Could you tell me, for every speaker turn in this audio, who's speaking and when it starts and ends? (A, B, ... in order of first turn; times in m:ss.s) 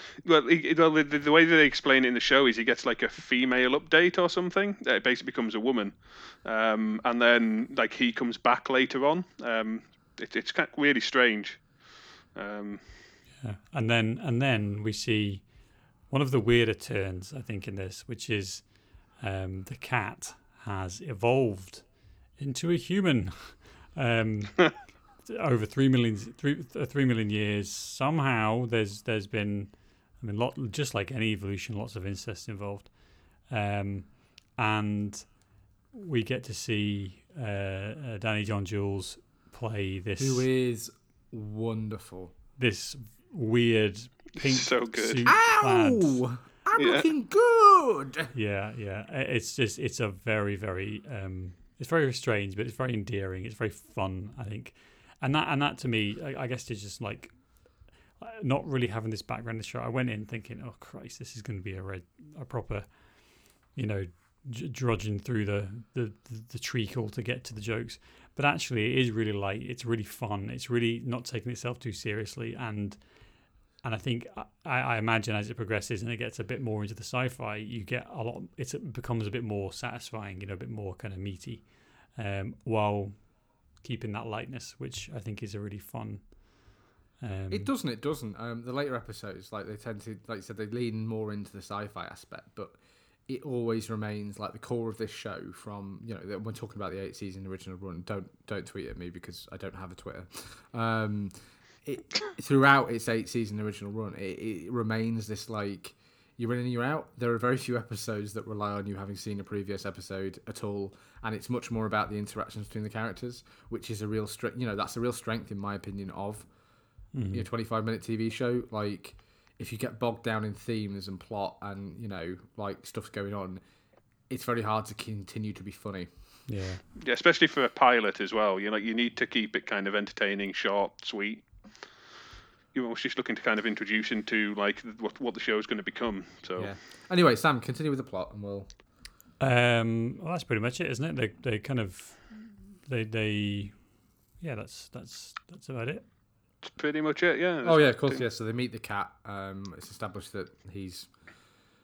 0:00.2-0:13.2 A
0:13.3-0:40.4 B
0:40.2-0:42.3 C
0:42.6-0:46.2 B
0:44.4-0:45.3 A
0:45.2-0:48.3 C
0:46.8-0:47.1 A
0:48.3-1:27.7 B
1:27.5-1:32.8 C
1:33.3-1:41.3 C
1:41.8-1:56.5 C
1:57.1-1:57.5 B
1:57.3-2:03.6 C
2:04.3-2:06.1 C
2:06.5-2:06.8 B
2:07.0-2:11.5 A
2:12.7-2:16.7 A
2:16.6-2:18.7 C
2:19.4-2:26.0 B
2:26.6-2:28.2 A
2:27.6-2:31.1 C